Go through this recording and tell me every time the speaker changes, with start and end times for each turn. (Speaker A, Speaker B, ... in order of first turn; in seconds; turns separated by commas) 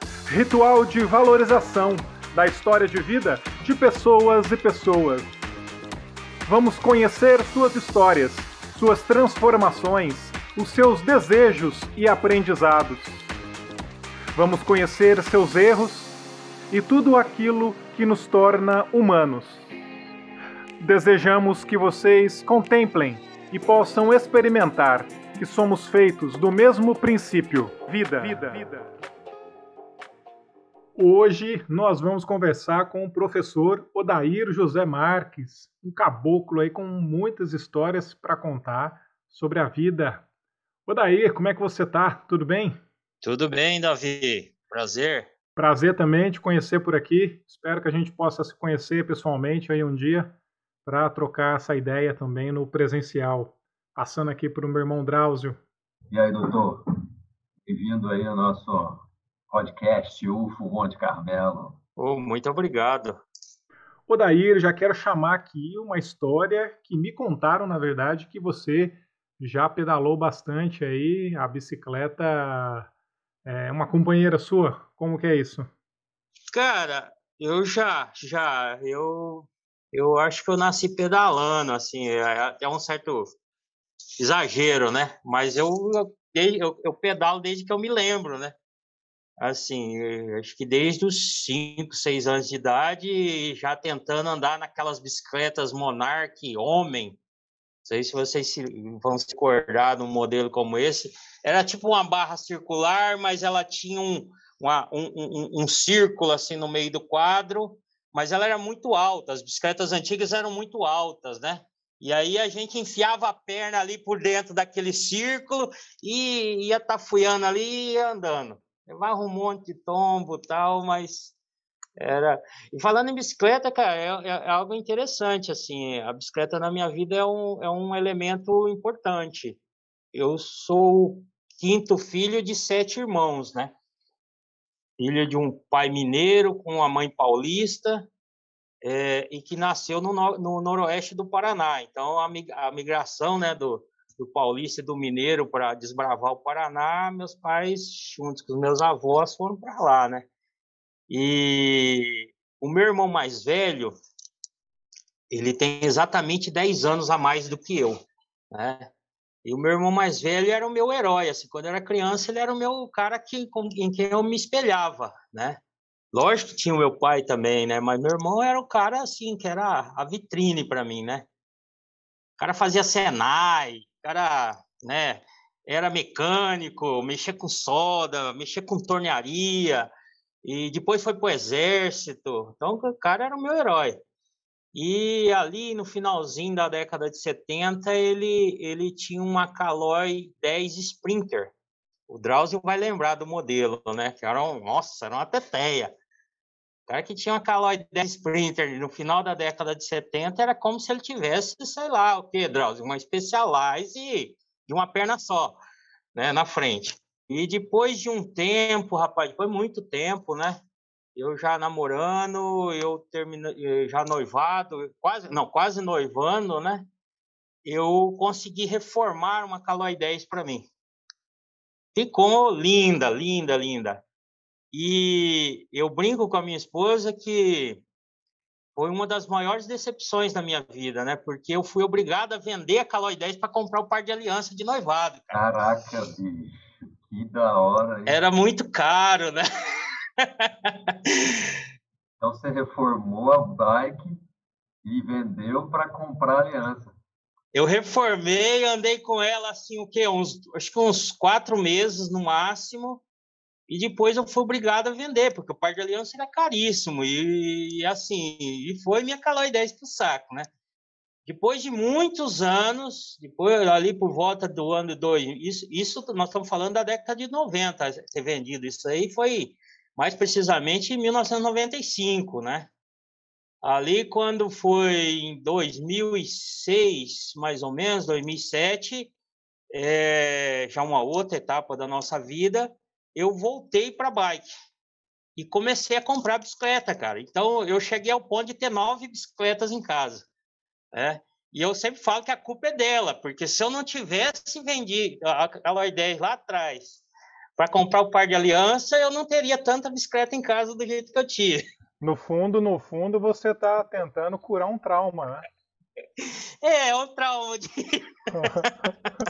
Speaker A: 0.3-5.3, Speaker A: 6.5-13.3, Speaker A: 14.3-16.1, Speaker A: 16.7-19.7, Speaker A: 20.8-28.9, Speaker A: 31.0-40.3, Speaker A: 40.9-42.8, Speaker B: 43.2-45.3, Speaker A: 45.6-50.4, Speaker A: 50.9-55.6, Speaker C: 56.1-56.8, Speaker C: 57.7-61.8, Speaker B: 62.0-63.2, Speaker A: 64.1-72.9, Speaker A: 73.5-75.7, Speaker B: 76.5-83.3, Speaker B: 84.2-88.5, Speaker B: 89.4-97.2, Speaker B: 97.8-121.4, Speaker B: 122.0-129.6, Speaker B: 130.1-133.7, Speaker B: 135.0-138.1, Speaker B: 138.8-150.3, Speaker B: 151.1-153.9, Speaker B: 155.3-158.0, Speaker B: 158.5-158.9, Speaker B: 159.4-165.6, Speaker B: 166.1-171.3, Speaker B: 172.4-179.9, Speaker B: 180.4-184.0, Speaker B: 184.7-191.5, Speaker B: 192.1-195.9, Speaker B: 196.9-205.6, Speaker B: 206.2-210.6, Speaker B: 211.2-216.9, Speaker B: 217.7-220.7, Speaker B: 221.9-224.0, Speaker B: 224.7-227.8, Speaker B: 228.8-235.4, Speaker C: 235.3-238.2, Speaker B: 238.1-239.4, Speaker B: 240.2-241.2, Speaker C: 242.2-244.2, Speaker C: 244.8-246.9, Speaker B: 247.5-253.0, Speaker B: 253.7-260.5, Speaker B: 261.2-272.7, Speaker B: 273.6-279.1, Speaker B: 279.7-284.5, Speaker B: 285.4-290.3, Speaker B: 290.9-297.0, Speaker B: 297.6-301.6, Speaker A: 302.0-305.5, Speaker B: 306.2-309.1, Speaker A: 308.3-308.9